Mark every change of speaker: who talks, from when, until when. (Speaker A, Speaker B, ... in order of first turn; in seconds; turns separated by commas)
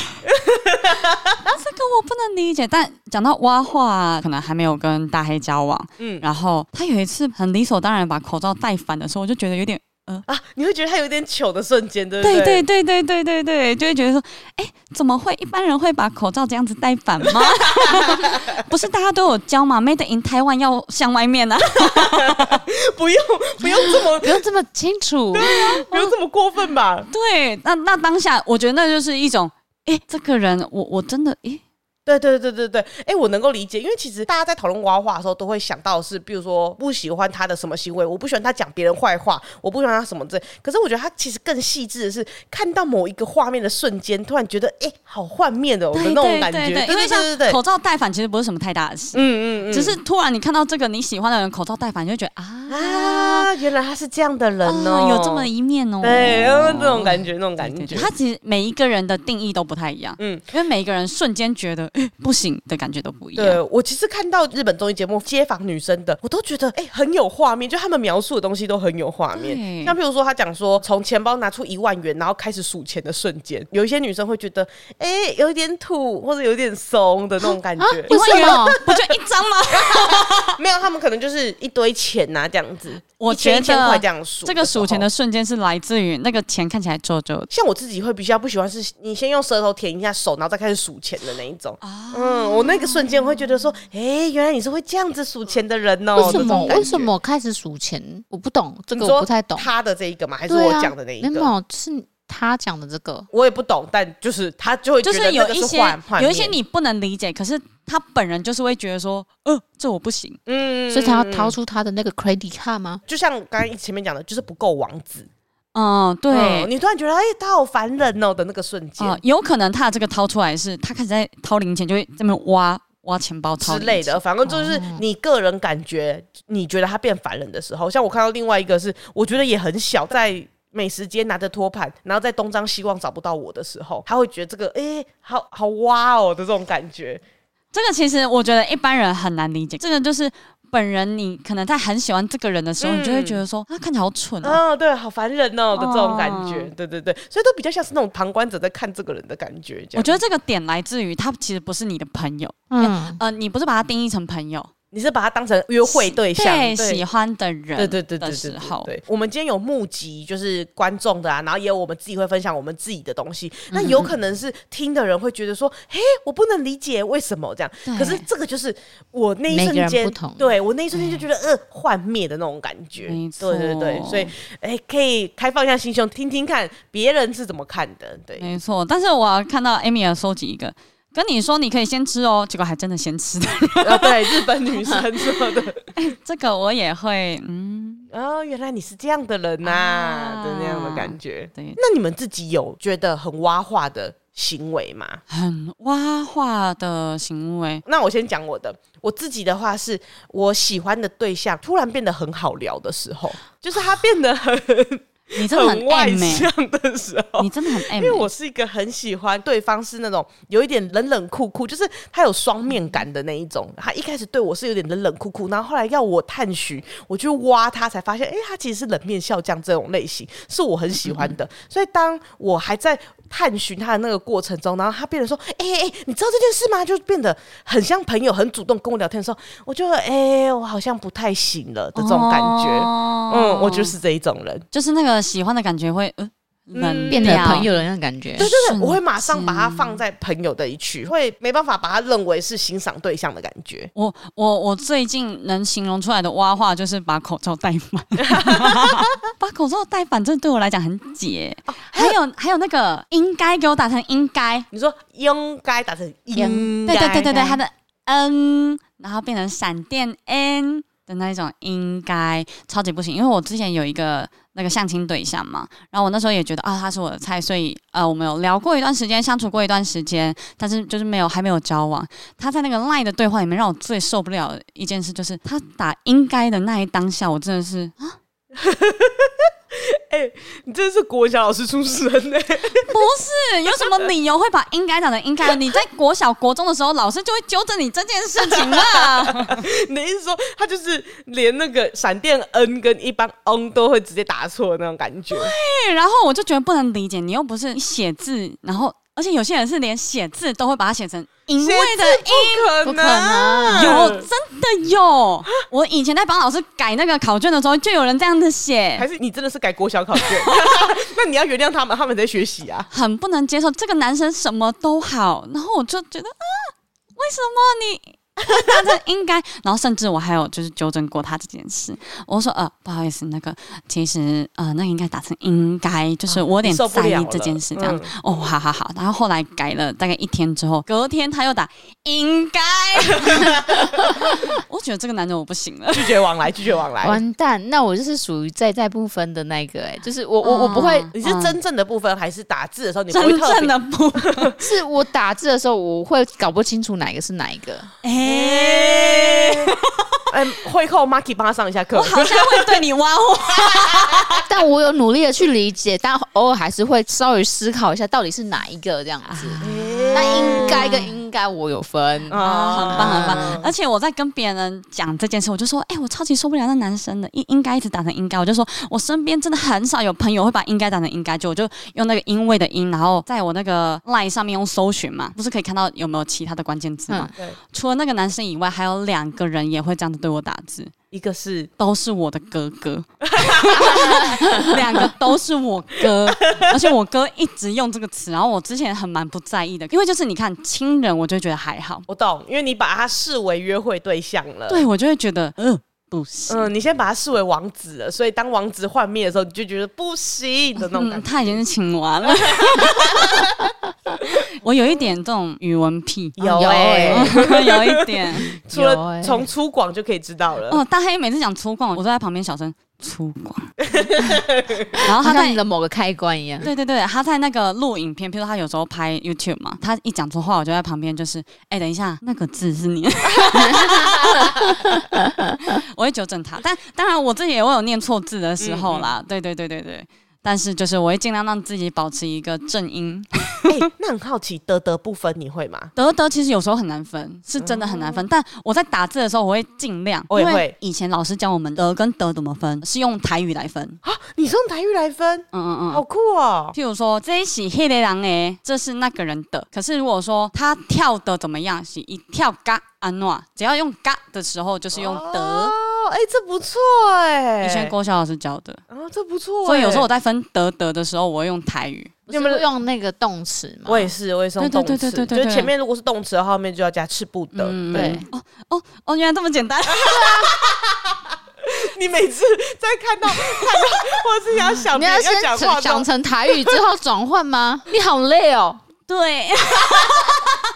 Speaker A: 0.2-1.5, Speaker B: 1.4-10.2, Speaker A: 6.0-6.2, Speaker A: 10.3-12.6, Speaker B: 12.2-22.6, Speaker A: 17.5-18.4, Speaker A: 21.8-24.4, Speaker C: 24.2-25.5, Speaker A: 25.3-27.1, Speaker B: 25.4-26.1, Speaker B: 27.1-31.6, Speaker A: 32.0-47.6, Speaker B: 45.9-53.5, Speaker A: 49.1-50.0, Speaker A: 52.7-55.5, Speaker B: 54.6-63.6, Speaker A: 56.0-58.1, Speaker A: 60.2-60.4, Speaker A: 63.4-79.2, Speaker B: 69.4-70.0, Speaker C: 77.8-78.8, Speaker B: 78.1-80.6, Speaker A: 79.7-85.1, Speaker B: 83.2-87.5, Speaker A: 87.5-97.1, Speaker B: 91.8-93.2, Speaker B: 96.2-96.9, Speaker C: 96.2-99.7, Speaker A: 98.9-101.5, Speaker C: 100.5-103.3, Speaker A: 103.3-106.5, Speaker B: 105.0-110.4, Speaker A: 110.5-111.5, Speaker C: 110.9-113.0, Speaker A: 113.1-115.3, Speaker B: 115.7-116.7, Speaker A: 116.3-119.2, Speaker B: 119.0-124.2, Speaker A: 123.6-137.2, Speaker C: 124.4-125.0, Speaker B: 137.7-144.6, Speaker A: 142.8-143.4, Speaker A: 144.4-150.2, Speaker B: 145.7-146.7, Speaker B: 149.9-154.7, Speaker C: 152.7-153.2, Speaker A: 154.9-157.0, Speaker B: 155.8-158.9, Speaker A: 157.8-178.5, Speaker B: 163.7-164.1, Speaker B: 167.8-168.2, Speaker C: 169.5-170.5, Speaker B: 173.0-174.3, Speaker B: 178.4-184.4, Speaker A: 183.8-185.9, Speaker B: 185.9-188.1, Speaker A: 188.1-195.2, Speaker B: 189.6-191.8, Speaker B: 195.3-197.8, Speaker A: 197.8-234.6, Speaker B: 205.3-206.5, Speaker B: 207.4-208.3, Speaker B: 221.0-221.3, Speaker B: 231.9-233.9, Speaker B: 234.7-237.7, Speaker A: 236.7-237.7, Speaker C: 237.1-238.5, Speaker B: 238.4-240.0, Speaker A: 238.4-243.9, Speaker B: 243.9-254.7, Speaker A: 248.2-249.1, Speaker A: 251.7-252.2, Speaker A: 254.7-257.4, Speaker C: 256.3-256.7, Speaker B: 256.9-278.1, Speaker C: 257.3-257.6, Speaker A: 278.5-283.0, Speaker B: 282.9-289.6, Speaker A: 288.5-295.5, Speaker B: 295.3-309.1, Speaker A: 301.6-304.3, Speaker C: 303.5-304.0, Speaker A: 308.9-312.9, Speaker B: 310.4-310.8, Speaker B: 312.9-336.1, Speaker A: 326.4-328.1, Speaker A: 333.2-334.0, Speaker A: 335.9-337.2, Speaker C: 337.0-341.5, Speaker B: 340.4-341.1, Speaker A: 341.1-344.6, Speaker B: 343.1-344.5, Speaker C: 344.6-347.9, Speaker B: 348.0-350.2, Speaker A: 348.2-349.7, Speaker A: 350.3-352.8, Speaker B: 351.9-354.4, Speaker A: 353.6-354.4, Speaker C: 354.4-359.6, Speaker B: 359.2-361.1, Speaker A: 359.6-360.9, Speaker C: 360.1-363.6, Speaker A: 362.3-363.7, Speaker B: 362.3-380.9, Speaker A: 381.1-381.7, Speaker B: 381.8-392.1, Speaker A: 383.2-384.7, Speaker A: 392.1-394.9, Speaker B: 394.7-396.7, Speaker A: 396.5-401.6, Speaker B: 400.9-403.5, Speaker A: 402.3-403.7, Speaker B: 404.3-406.4, Speaker A: 406.4-410.8, Speaker C: 406.4-407.5, Speaker B: 407.1-408.6, Speaker C: 408.7-409.5, Speaker B: 410.7-413.7, Speaker A: 413.8-415.0, Speaker B: 415.0-415.6, Speaker C: 415.2-416.7, Speaker B: 416.6-425.0, Speaker A: 423.7-424.5, Speaker C: 424.7-425.6, Speaker B: 425.6-433.7, Speaker A: 428.6-429.1, Speaker A: 433.7-435.9, Speaker B: 435.9-444.0, Speaker A: 437.6-438.2, Speaker A: 440.3-440.7, Speaker A: 444.0-446.7, Speaker B: 445.5-446.0, Speaker B: 446.7-455.7, Speaker A: 454.9-457.9, Speaker B: 457.6-458.8, Speaker A: 458.9-460.1, Speaker B: 459.6-462.1, Speaker C: 462.3-464.1, Speaker A: 462.3-462.6, Speaker A: 463.9-468.2, Speaker B: 464.6-465.7, Speaker B: 467.5-470.5, Speaker C: 467.9-468.2, Speaker A: 469.9-476.1, Speaker B: 474.6-474.8, Speaker C: 474.9-478.8, Speaker B: 479.1-480.4, Speaker A: 479.8-480.6